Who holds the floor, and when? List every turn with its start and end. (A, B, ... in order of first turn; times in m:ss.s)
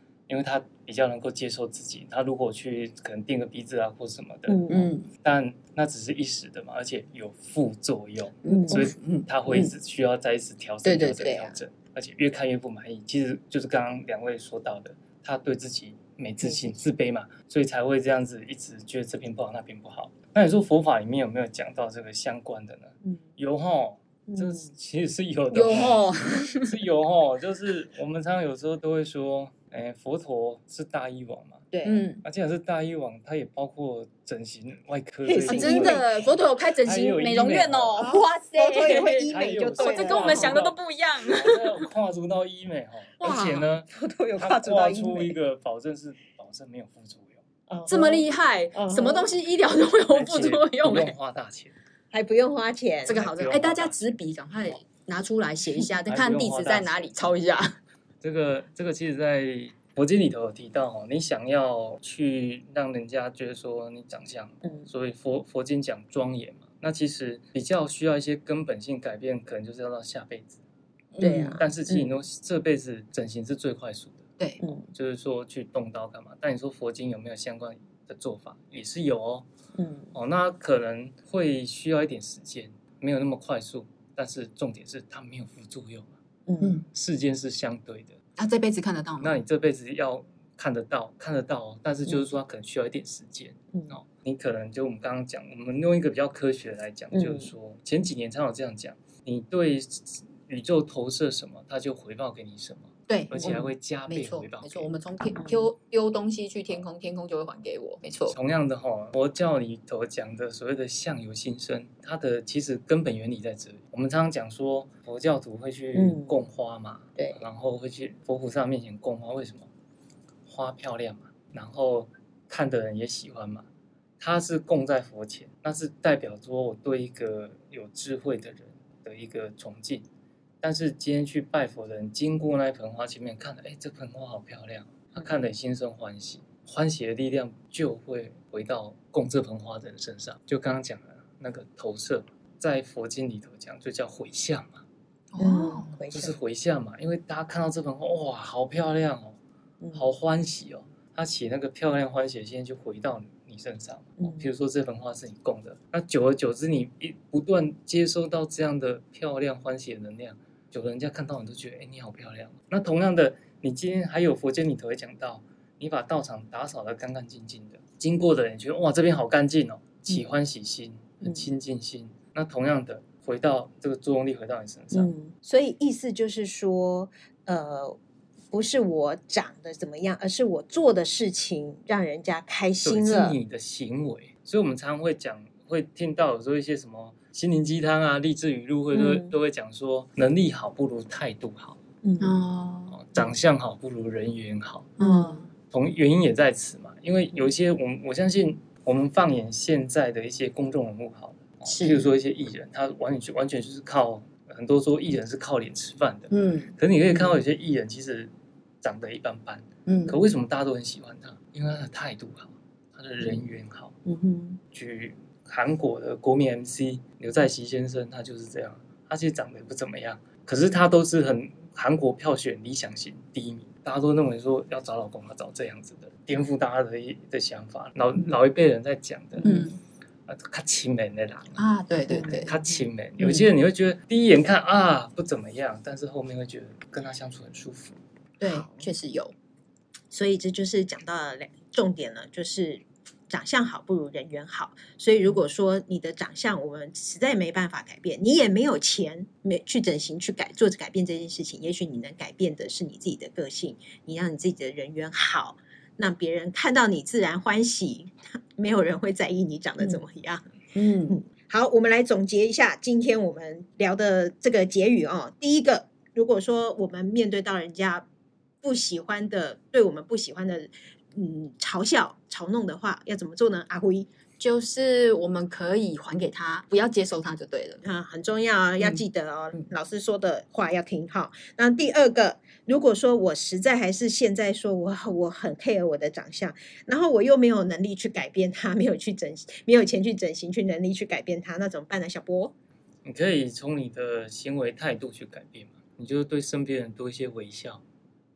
0:00.3-0:31.7 A
0:04.5-0:04.9 B
0:04.7-0:05.1 C
0:08.4-0:09.7 C
0:08.5-0:08.9 B
0:10.8-0:11.6 C
0:16.4-0:16.9 B
0:24.3-0:24.7 B
0:25.5-0:26.7 C
0:31.7-0:32.1 B
0:31.8-0:32.2 C
0:32.2-0:36.0 A
0:35.3-0:36.1 B
0:35.4-0:41.9 C
0:36.8-0:38.1 A
0:38.0-0:40.6 B
0:39.3-0:47.4 A
0:43.2-0:43.7 C
0:43.9-0:45.4 B
0:47.7-0:49.3 B
0:47.9-0:51.2 C
0:50.1-0:51.8 A
0:52.1-0:53.2 B
0:53.1-0:57.8 C
0:53.1-0:54.1 A
0:56.0-0:57.1 A
0:58.2-1:10.6 A
1:11.1-1:11.6 C
1:11.2-1:12.2 B
1:11.3-1:14.3 A
1:14.6-1:14.9 B
1:14.9-1:19.5 A
1:19.8-1:20.1 B
1:20.2-1:26.2 A
1:26.5-1:26.8 B
1:26.6-1:26.9 C
1:26.9-1:28.2 A
1:28.4-1:29.4 C
1:29.2-1:44.9 A
1:37.1-1:37.5 B
1:43.1-1:48.4 C
1:43.4-1:43.7 B
1:45.4-1:45.7 B
1:48.3-1:59.7 A
1:56.0-1:56.4 B
2:00.5-2:03.7 A
2:04.2-2:10.0 A
2:10.6-2:24.8 A
2:25.3-2:26.0 C
2:25.4-2:26.3 B
2:26.1-2:29.4 A
2:29.8-2:30.1 B
2:30.0-2:55.1 A
2:34.2-2:34.5 B
2:51.2-2:51.5 B
2:54.9-2:58.0 B
2:58.5-3:03.4 B
3:02.8-3:11.8 A
3:08.9-3:09.3 B
3:12.0-3:12.4 B
3:12.2-3:13.0 C
3:12.9-3:15.0 A
3:15.0-3:15.5 B
3:15.0-3:15.5 C
3:15.7-3:28.3 A
3:21.7-3:22.1 C
3:26.3-3:26.7 C
3:28.8-3:34.0 A
3:29.9-3:30.2 C
3:34.1-3:34.6 B
3:34.7-3:49.6 A
3:49.4-3:49.7 B
3:49.4-3:49.8 C
3:50.3-3:51.6 A
3:51.6-3:52.5 C
3:52.1-3:52.8 B
3:52.3-3:58.0 A
3:53.2-3:53.5 C
3:58.4-3:59.3 C
3:58.4-3:58.9 B
4:00.1-4:20.5 B
4:20.8-4:21.2 C
4:21.1-4:28.0 B
4:28.6-4:34.1 B
4:34.4-4:37.8 C
4:37.8-4:52.5 B
4:53.0-4:57.8 A